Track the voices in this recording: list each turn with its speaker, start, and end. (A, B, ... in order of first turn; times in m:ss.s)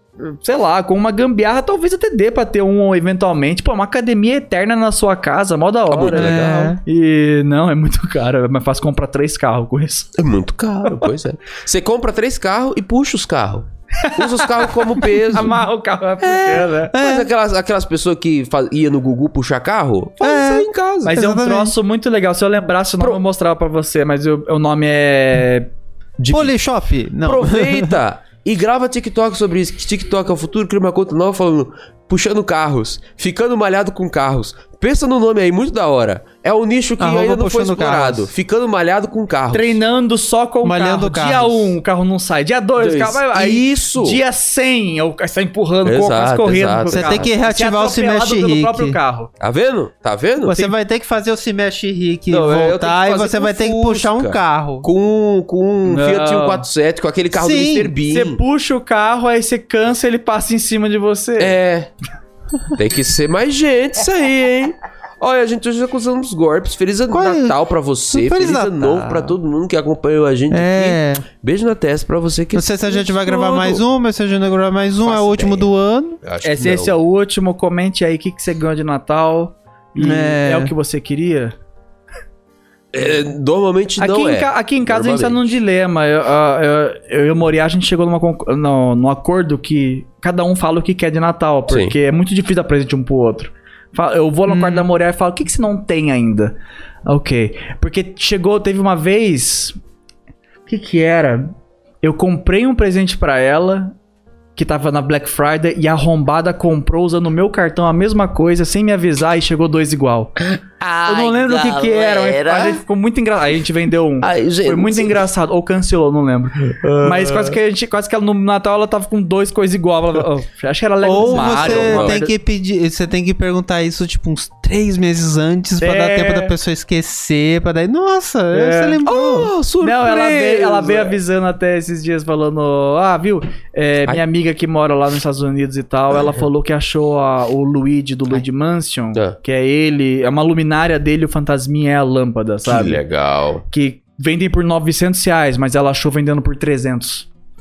0:00.3-0:10.1 A
0:05.9-0:06.7 B
0:06.1-0:06.8 C
0:10.2-0:15.6 B
0:10.8-0:11.1 A
0:14.0-0:16.9 A
0:16.2-0:21.2 B
0:16.9-0:17.2 C
0:20.2-0:21.7 C
0:21.0-0:25.7 A
0:26.2-0:26.5 B
0:26.3-0:27.9 C
0:27.2-0:39.8 B
0:37.0-0:38.3 C
0:39.5-0:49.3 A
0:40.6-0:41.8 C
0:42.8-0:44.2 B
0:45.8-0:47.3 B
0:46.9-0:49.0 C
0:49.4-0:50.7 B
0:50.4-0:54.9 C
0:52.3-0:58.4 B
0:55.9-0:56.6 A
0:57.4-0:57.9 C
0:58.1-1:01.5 A
1:01.4-1:01.9 B
1:02.7-1:13.8 B
1:07.1-1:07.6 C
1:08.1-1:09.4 C
1:10.5-1:11.2 C
1:12.5-1:16.2 C
1:15.0-1:15.7 B
1:16.2-1:16.9 B
1:16.4-1:21.5 A
1:20.0-1:20.7 C
1:22.9-1:25.4 B
1:24.0-1:36.5 A
1:31.7-1:31.9 B
1:34.5-1:34.8 C
1:37.0-1:39.7 A
1:40.7-1:41.5 A
1:42.0-1:43.9 A
1:44.6-1:50.3 A
1:50.4-1:52.8 B
1:51.0-2:02.3 A
1:54.2-1:55.2 B
1:56.7-1:57.6 B
2:01.0-2:09.5 C
2:01.2-2:02.2 B
2:05.8-2:06.5 A
2:08.5-2:09.0 A
2:09.0-2:11.2 B
2:09.8-2:23.0 A
2:22.6-2:23.6 B
2:23.7-2:27.3 A